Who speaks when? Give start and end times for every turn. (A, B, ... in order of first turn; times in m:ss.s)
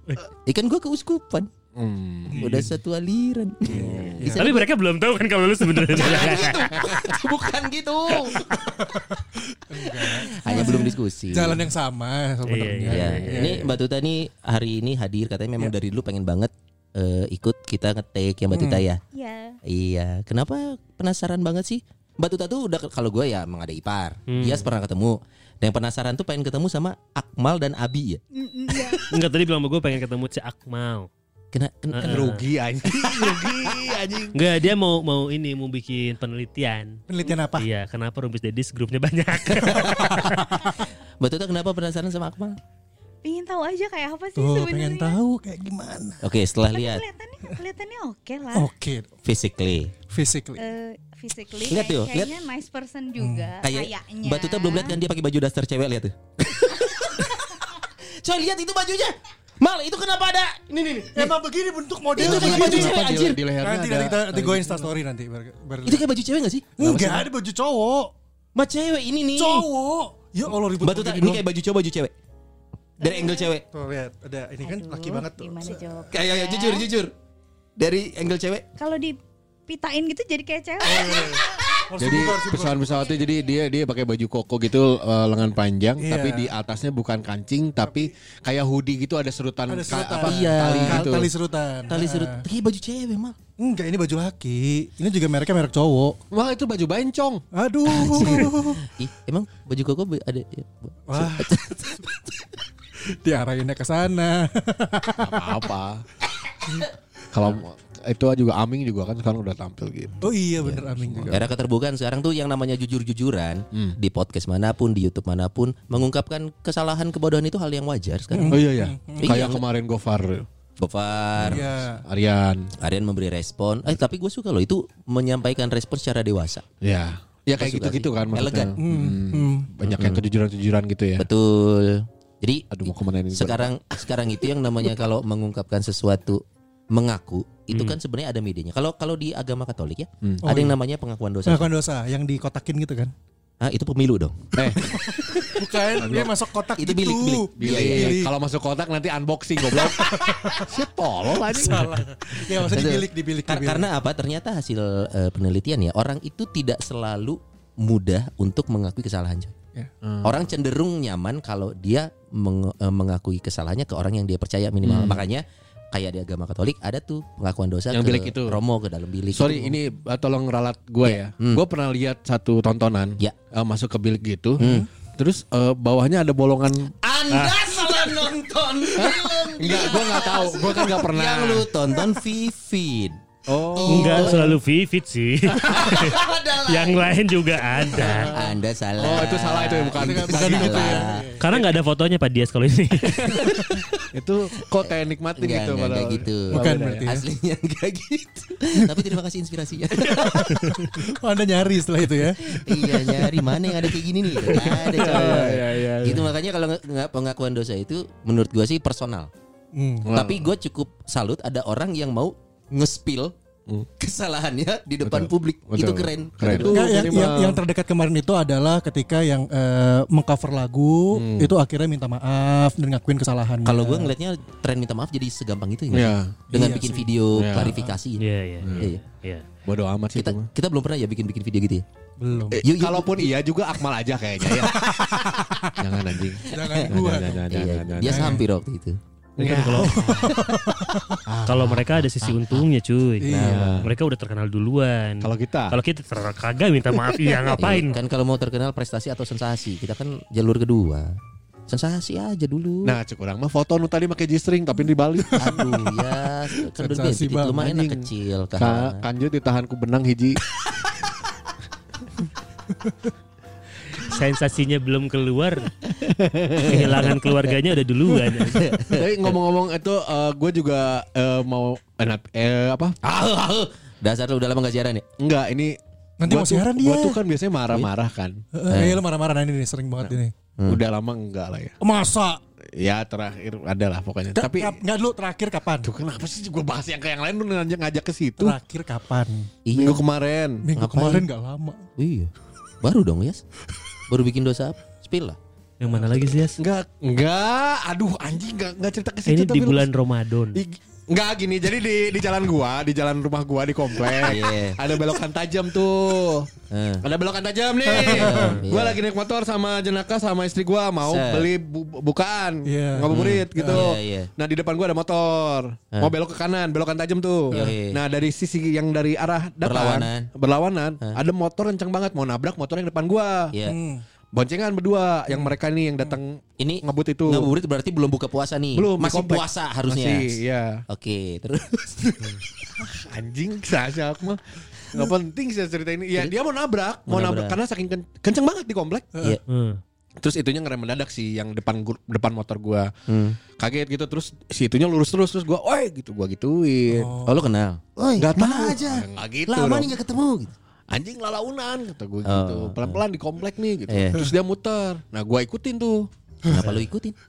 0:00.3-0:01.5 A
0:01.8-0:02.6 B
0:02.3-0:02.7 C
0:02.3-0:04.7 A
0:03.7-0:04.4 C
0:04.2-0:06.8 D
0:05.9-0:08.6 A
0:08.5-0:13.7 C
0:09.8-0:11.7 A
0:12.5-0:13.7 D
0:12.9-0:19.0 A
0:18.5-0:18.8 C
0:19.1-0:19.6 E
0:19.6-0:29.0 A
0:24.3-0:24.7 D
0:28.3-0:29.1 E
0:29.1-0:31.1 D
0:31.5-0:32.3 A
0:31.9-0:32.4 D
0:32.0-0:34.4 B
0:33.2-0:33.5 A
0:34.3-0:37.0 D
0:37.1-0:37.7 C
0:37.6-0:40.4 D
0:39.6-0:40.5 A
0:39.8-0:40.7 C
0:41.2-0:42.6 A
0:43.2-0:45.2 E
0:44.4-0:46.2 C
0:46.2-0:47.0 A
0:46.7-0:48.7 E
0:48.5-0:49.1 C
0:49.2-0:49.9 A
0:50.1-0:50.6 C
0:50.6-0:55.0 E
0:51.7-0:52.3 A
0:53.2-0:53.5 C
0:53.6-1:01.4 A
1:01.1-1:03.1 C
1:02.2-1:03.4 A
1:02.2-1:04.9 B
1:03.6-1:06.1 C
1:05.8-1:07.0 A
1:06.8-1:08.1 C
1:06.8-1:07.2 B
1:08.6-1:09.7 A
1:09.4-1:11.4 C
1:10.8-1:12.1 A
1:13.0-1:13.6 A
1:13.0-1:13.6 E
1:13.7-1:15.9 C
1:14.6-1:16.9 E
1:16.1-1:17.1 A
1:17.8-1:18.7 A
1:18.8-1:21.9 E
1:20.8-1:23.1 C
1:22.0-1:31.3 B
1:22.9-1:23.5 E
1:26.0-1:26.5 C
1:29.7-1:32.4 C
1:30.2-1:31.1 A
1:31.9-1:33.4 A
1:33.6-1:36.2 C
1:36.3-1:37.4 B
1:37.5-1:38.8 C
1:37.9-1:42.5 A
1:41.1-1:41.6 C
1:43.2-1:45.6 C
1:45.2-1:46.0 B
1:47.3-1:51.4 B
1:50.2-1:51.5 C
1:50.7-1:58.7 A
1:58.3-1:59.4 C
1:58.5-2:00.5 B
1:59.2-1:59.6 A
2:00.8-2:01.7 A
2:01.4-2:02.7 B
2:01.5-2:02.0 C
2:02.8-2:06.6 A
2:06.8-2:11.3 B
2:07.6-2:08.8 A
2:08.8-2:09.7 C
2:09.8-2:10.2 A
2:11.2-2:21.7 A
2:12.7-2:13.8 B
2:17.7-2:18.0 D
2:20.2-2:20.6 B
2:20.4-2:20.8 C
2:21.5-2:23.1 C
2:23.6-2:25.6 A
2:24.6-2:25.4 B
2:24.7-2:28.3 C
2:25.9-2:26.4 B
2:26.8-2:28.2 A
2:27.6-2:32.1 B
2:29.7-2:30.7 C
2:31.4-2:33.9 C
2:32.6-2:39.5 A
2:40.0-2:40.4 B
2:40.2-2:49.8 A
2:44.8-2:45.2 B
2:47.9-2:48.6 B
2:49.3-2:57.6 B
2:51.0-2:51.6 A
2:54.6-2:54.9 A
2:57.0-3:03.2 A
2:57.4-2:58.1 D
2:59.0-3:01.7 B
3:03.5-3:04.5 B
3:03.7-3:04.6 A
3:03.9-3:08.3 D
3:05.5-3:06.1 B
3:05.6-3:07.3 A
3:07.8-3:08.3 B
3:07.8-3:11.3 A
3:08.0-3:08.5 C
3:09.0-3:11.7 B
3:10.0-3:11.4 C
3:11.4-3:13.4 D
3:13.1-3:13.4 B
3:13.2-3:14.0 A
3:14.1-3:17.2 B
3:14.8-3:20.8 A
3:16.5-3:17.2 C
3:18.8-3:19.1 C
3:20.1-3:24.7 C
3:20.3-3:21.0 B
3:22.5-3:29.3 A
3:24.4-3:26.3 B
3:29.7-3:30.1 C
3:30.0-3:30.5 B
3:30.1-3:33.4 A
3:34.0-3:37.1 A
3:35.0-3:37.6 B
3:36.7-3:44.1 C
3:41.1-3:41.6 B
3:43.6-3:48.2 A
3:45.9-3:46.4 B
3:46.5-3:48.0 C
3:47.4-3:47.8 B
3:48.2-3:49.4 D
3:48.6-3:48.9 B
3:48.8-3:49.0 A
3:49.6-3:50.5 B
3:50.2-3:51.8 A
3:52.2-3:52.6 C
3:52.5-3:58.4 B
3:52.6-3:53.3 A
3:54.6-3:55.8 C
3:56.5-3:57.5 C
3:56.5-3:57.0 A
3:57.5-3:59.0 A
3:58.0-3:58.4 C
3:59.4-4:00.4 D
3:59.4-4:00.4 B
3:59.7-4:01.2 C
4:01.3-4:02.3 B
4:01.5-4:08.0 D
4:03.2-4:03.7 C
4:03.3-4:03.8 A
4:03.3-4:03.9 B
4:05.2-4:05.8 B
4:07.6-4:11.2 A
4:11.7-4:13.0 A
4:12.8-4:15.7 B
4:15.4-4:19.0 A
4:15.4-4:15.9 C
4:16.6-4:17.7 C
4:17.6-4:20.4 B
4:23.9-4:25.7 D
4:26.1-4:26.7 B
4:26.6-4:27.6 A
4:26.6-4:28.8 D
4:28.1-4:29.3 A
4:28.9-4:33.0 B
4:33.0-4:35.0 A
4:35.2-4:38.4 B
4:36.2-4:37.2 C
4:38.5-4:40.3 C
4:38.7-4:39.0 A
4:40.0-4:41.8 B
4:41.8-4:42.4 C
4:42.8-4:44.8 B
4:44.4-4:45.9 C
4:45.8-4:48.6 B
4:48.4-4:49.5 C
4:49.6-4:50.0 A
4:49.7-4:50.6 B
4:50.6-4:51.9 C
4:50.8-4:51.3 A
4:52.0-4:53.4 A
4:54.1-4:55.4 A
4:55.8-4:56.6 D
4:56.6-4:59.9 B
4:59.3-5:00.6 D
5:00.5-5:06.5 B
5:04.2-5:04.8 A
5:06.7-5:07.1 A
5:07.0-5:23.5 B
5:07.9-5:09.0 A
5:07.9-5:08.6 C
5:11.0-5:11.5 A
5:12.7-5:13.9 C
5:13.1-5:14.3 A
5:17.5-5:18.0 A
5:19.6-5:20.3 A
5:23.5-5:23.8 A
5:23.6-5:24.0 C
5:24.3-5:27.5 B
5:26.6-5:30.4 A
5:28.8-5:30.8 B
5:30.9-5:32.4 A
5:32.8-5:39.1 B
5:37.1-5:37.6 A
5:39.5-5:39.8 D
5:40.2-5:42.9 B
5:43.1-5:43.4 A
5:43.6-5:47.1 B
5:46.9-5:47.4 C
5:47.2-5:50.5 A
5:48.2-5:49.9 B
5:50.9-5:56.1 B
5:52.2-5:53.0 A
5:53.9-5:54.2 A
5:56.5-5:56.8 C
5:56.5-5:57.2 A